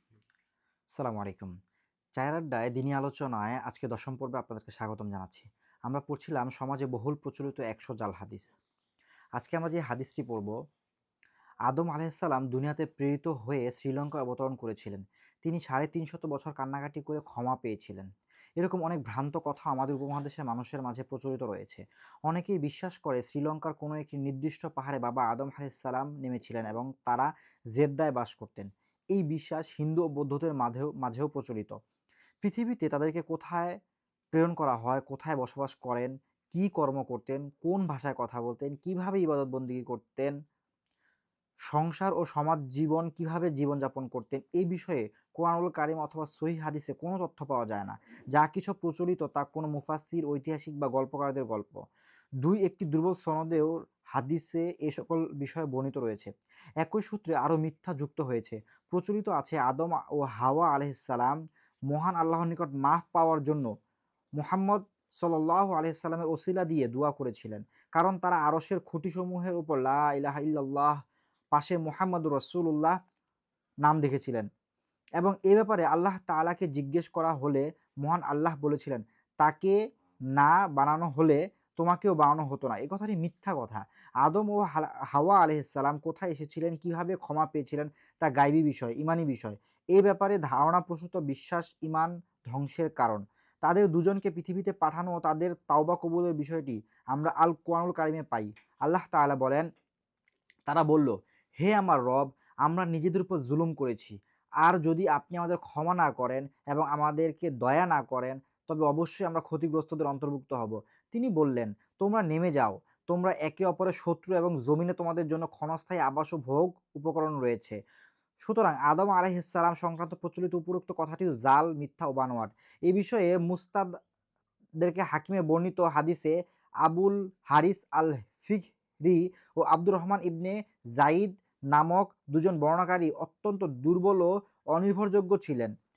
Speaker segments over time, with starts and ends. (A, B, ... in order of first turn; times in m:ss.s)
0:01.0-0:01.5 A
0:02.2-0:08.6 A
0:09.4-0:10.5 A
0:11.7-0:18.1 A
0:18.6-0:31.8 A
0:32.4-0:33.8 A
0:34.3-0:40.3 A
0:41.7-0:51.8 A
0:52.4-0:56.3 A
0:56.8-1:01.4 A
1:01.9-1:03.7 A
1:04.4-1:11.0 A
1:11.5-1:13.0 A
1:13.8-1:14.5 A
1:15.2-1:19.8 A
1:20.4-1:39.7 A
1:40.7-1:57.8 A
1:58.4-2:03.9 A
2:04.8-2:06.3 A
2:06.8-2:15.7 A